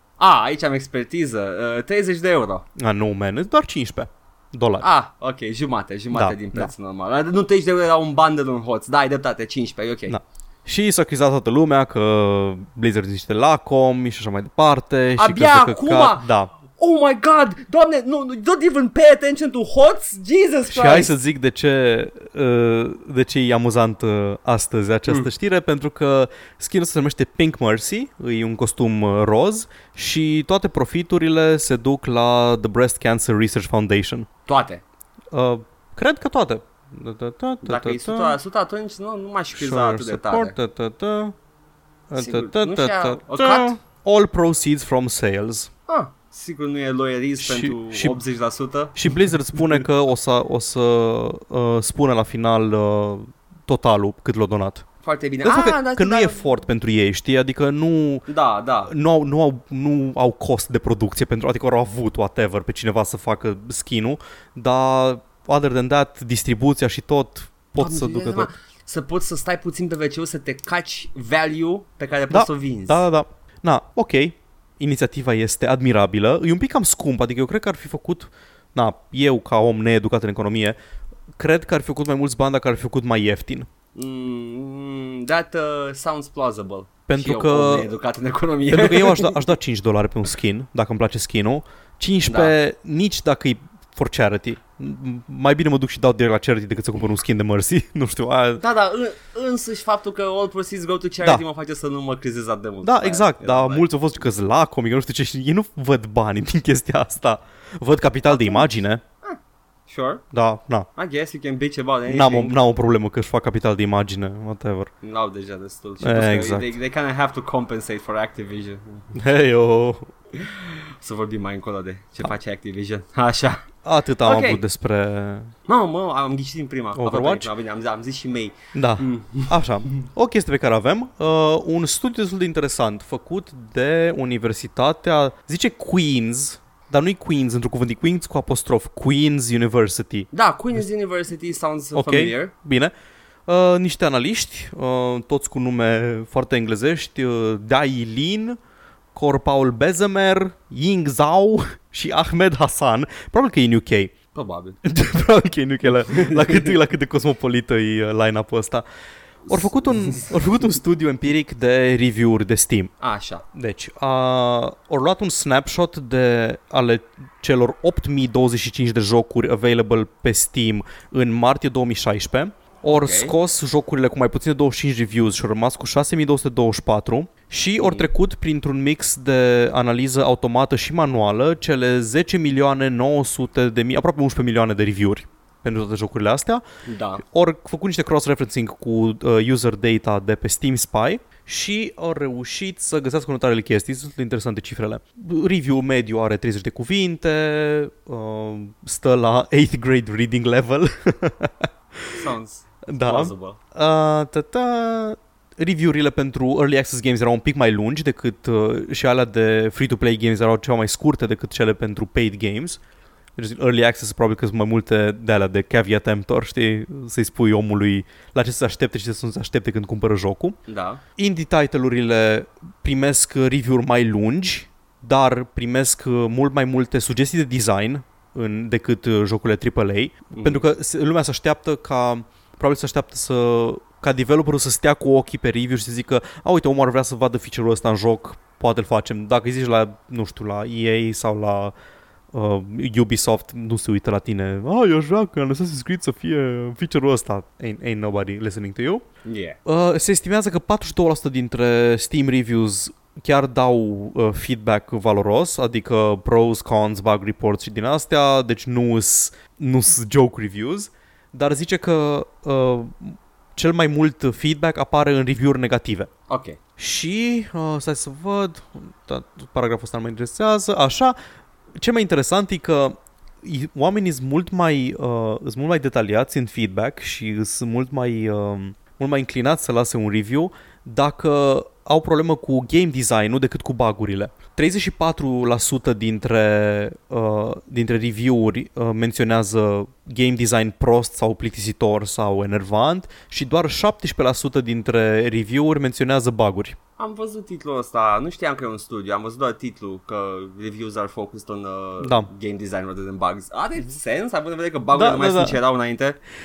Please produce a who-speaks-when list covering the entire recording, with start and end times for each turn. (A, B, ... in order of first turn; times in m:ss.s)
0:00.2-0:02.6 A
0:02.8-0:04.9 B
0:04.8-0:10.2 A
0:06.1-0:06.7 B
0:10.1-0:16.5 B
0:15.2-0:21.1 A
0:20.7-0:34.3 B
0:34.5-0:34.8 A
0:35.3-0:38.4 B
0:37.6-0:40.6 A
0:39.6-0:41.4 B
0:42.1-0:45.7 B
0:42.2-0:43.7 A
0:45.9-0:49.0 A
0:47.4-0:48.2 B
0:49.0-0:54.8 B
0:49.6-0:49.8 A
0:55.0-0:56.4 A
0:55.4-0:58.3 B
0:58.3-0:58.9 A
0:58.9-1:08.5 B
1:07.8-1:13.0 A
1:12.3-1:20.8 B
1:21.4-1:23.7 B
1:24.0-1:29.5 A
1:27.1-1:27.9 B
1:28.7-1:38.6 B
1:32.3-1:32.5 A
1:38.6-1:43.9 A
1:42.8-1:49.0 B
1:48.3-1:50.2 A
1:50.3-1:50.9 B
1:51.0-1:52.6 A
1:52.1-1:54.9 B
1:55.0-1:59.1 A
1:56.0-1:56.8 B
1:59.2-2:00.1 B
2:00.4-2:03.6 A
2:03.8-2:05.5 B
2:04.2-2:04.6 A
2:05.7-2:09.6 A
2:07.0-2:07.5 B
2:08.7-2:20.8 B
2:20.3-2:22.5 A
2:22.0-2:22.9 B
2:23.5-2:28.6 B
2:29.2-2:34.1 B
2:34.3-2:34.8 A
2:34.8-2:38.8 B
2:36.2-2:36.7 A
2:39.5-2:42.9 B
2:39.5-2:40.3 A
2:43.0-2:43.4 A
2:43.5-3:06.6 B
2:52.9-2:53.3 A
2:57.8-2:58.1 A
3:06.9-3:07.2 A
3:07.2-3:22.2 B
3:22.1-3:23.6 A
3:22.9-3:32.8 B
3:33.4-3:40.6 B
3:40.7-3:41.0 A
3:41.2-4:01.7 B
3:50.3-3:50.6 A
4:02.3-4:09.0 B
4:09.2-4:09.6 A
4:09.6-4:26.1 B
4:26.3-4:26.6 A
4:26.8-4:31.2 B
4:31.8-4:56.8 B
4:57.0-5:06.2 A
5:02.0-5:02.3 B
5:04.9-5:05.6 B